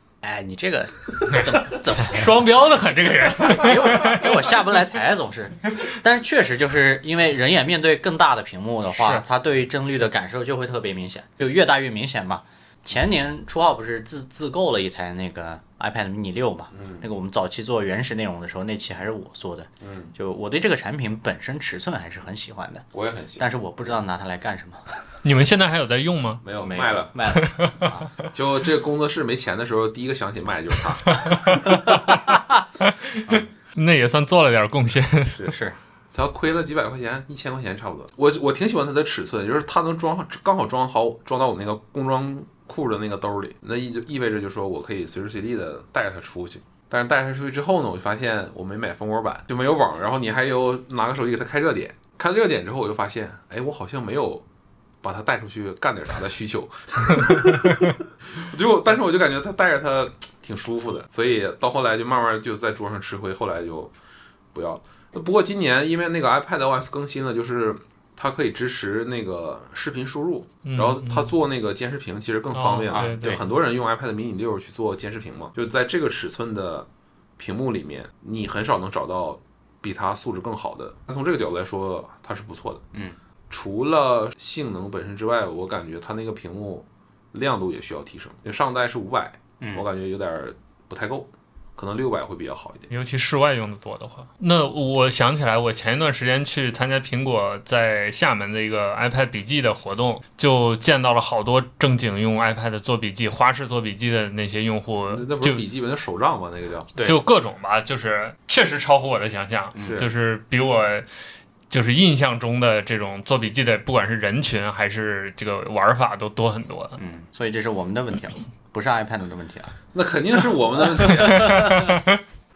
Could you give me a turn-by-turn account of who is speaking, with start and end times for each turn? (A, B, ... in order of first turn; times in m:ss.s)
0:00.2-0:02.4 A
0:02.0-0:04.5 B
0:03.4-0:24.8 A
0:09.0-0:09.2 B
0:16.7-0:17.0 C
0:19.8-0:20.1 C
0:22.9-0:23.4 C
0:25.2-0:26.4 B
0:26.4-0:27.1 C
0:26.6-0:28.1 A
0:27.3-0:27.9 B
0:28.3-0:31.8 C
0:31.7-0:32.6 A
0:32.8-0:35.4 B
0:35.3-0:35.6 C
0:35.5-0:35.8 A
0:36.1-0:54.4 C
0:55.0-1:03.9 C
1:04.5-1:22.8 C
1:10.6-1:11.3 B
1:12.5-1:13.4 B
1:12.9-1:13.4 A
1:23.5-1:32.9 C
1:29.6-1:29.9 A
1:32.9-1:45.6 B
1:45.1-1:46.9 C
1:47.0-1:47.2 A
1:47.0-1:51.1 B
1:49.8-1:50.0 A
1:49.8-1:50.1 C
1:51.7-1:57.0 B
1:57.0-1:59.8 A
1:59.9-2:02.0 C
2:01.0-2:01.8 A
2:01.4-2:01.8 B